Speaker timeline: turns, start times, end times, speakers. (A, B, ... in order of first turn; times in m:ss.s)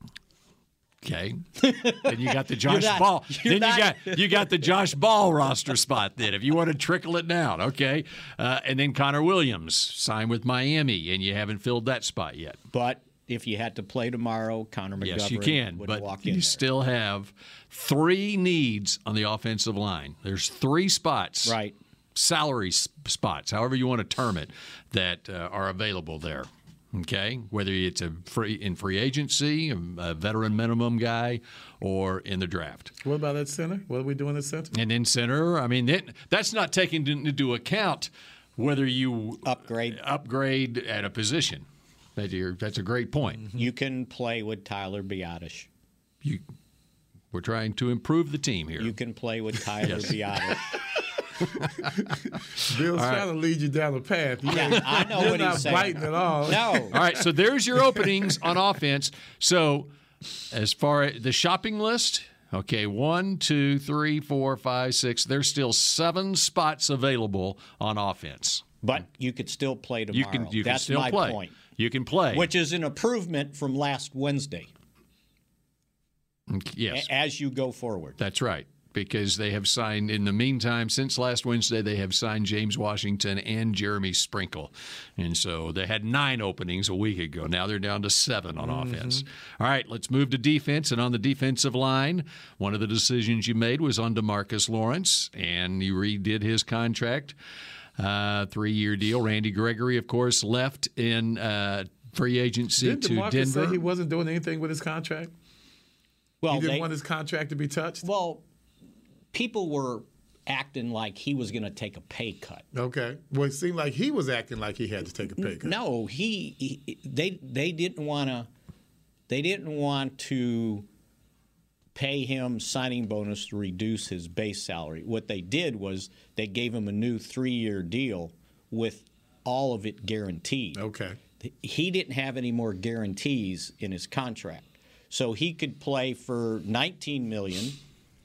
0:01.0-0:12.6 A
0:01.6-0:04.6 B
0:12.7-0:16.6 B
0:15.0-0:21.6 A
0:21.4-0:21.8 B
0:22.2-0:32.9 A
0:33.0-0:34.7 C
0:34.7-0:41.6 A
0:39.4-0:40.0 B
0:42.2-0:43.5 A
0:43.6-0:45.7 B
0:47.3-0:49.0 A
0:48.8-0:50.7 B
0:49.8-0:50.2 A
0:51.4-0:52.4 A
0:51.8-0:57.1 C
0:52.9-0:53.3 A
0:54.5-0:57.0 B
0:56.9-0:59.9 A
1:00.5-1:08.6 A
1:08.8-1:11.6 B
1:10.1-1:12.5 A
1:12.3-1:14.7 B
1:16.5-1:17.1 A
1:16.9-1:18.2 B
1:18.2-1:37.4 A
1:28.6-1:29.2 C
1:38.0-1:43.8 A
1:42.8-1:45.3 C
1:46.4-1:46.9 B
1:46.5-1:48.0 C
1:48.0-1:48.4 B
1:49.3-1:52.6 B
1:52.7-1:55.8 C
1:55.4-1:58.5 B
1:59.3-2:00.9 B
2:02.0-2:10.8 B
2:10.8-2:11.2 C
2:11.4-2:17.8 B